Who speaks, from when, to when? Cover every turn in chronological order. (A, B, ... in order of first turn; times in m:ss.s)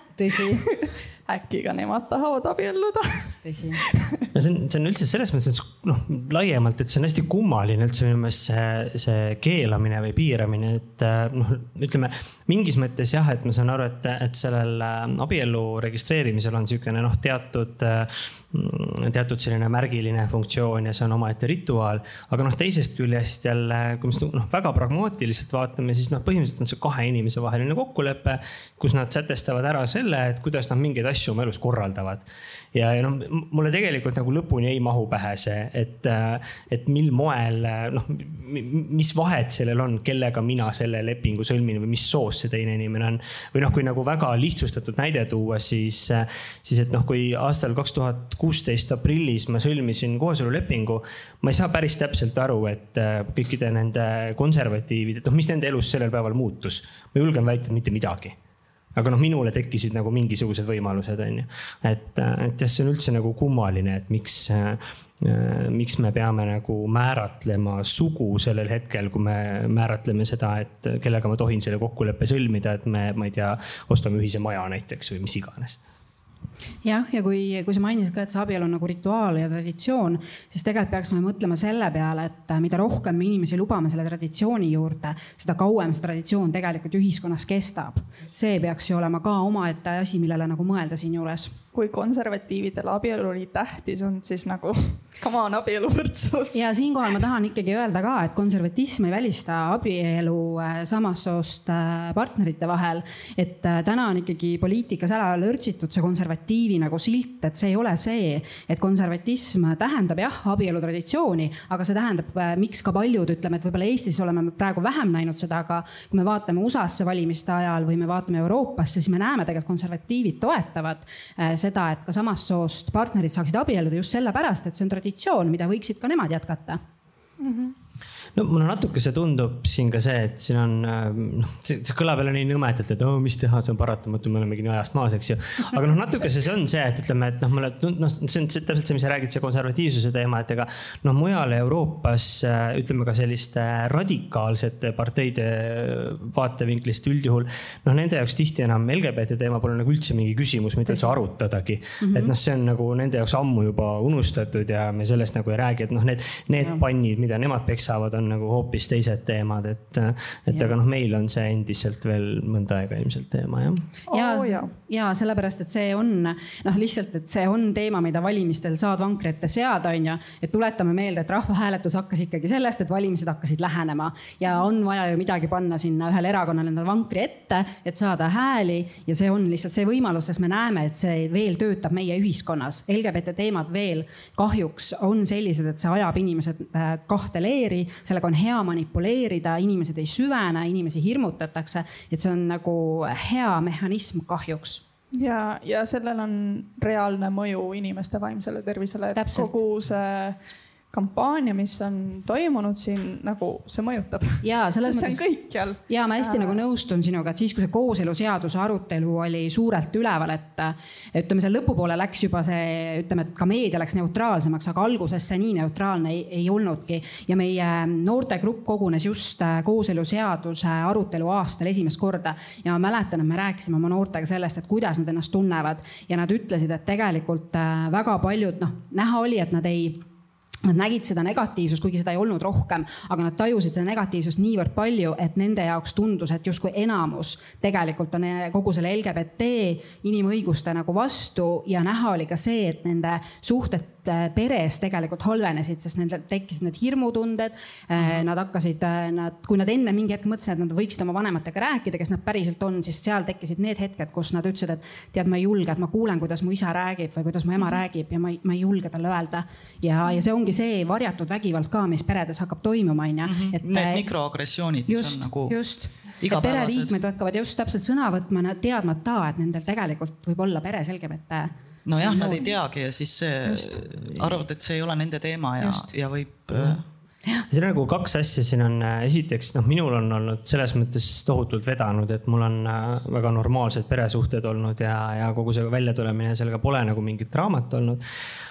0:00.2-0:00.7 A
0:00.5-0:04.2 B
0:03.4-0:03.8 A
0:04.3-0:58.4 C
0:59.0-1:15.8 C
1:16.8-1:31.5 A
1:31.7-1:36.6 B
1:36.5-2:06.8 A
2:07.4-2:07.8 B
2:08.4-2:43.8 C
2:30.9-2:31.2 A
2:32.0-2:32.3 A
2:44.1-2:44.7 B
2:44.1-3:14.8 A
3:15.1-3:20.4 B
3:19.2-3:19.6 A
3:20.9-3:26.6 B
3:24.4-3:50.0 A
3:50.6-4:24.1 A
4:23.2-4:25.6 D
4:24.9-4:32.5 A
4:26.2-4:26.9 D
4:31.8-4:36.8 D
4:33.5-4:33.8 A
4:35.6-4:35.9 A
4:37.5-4:48.0 C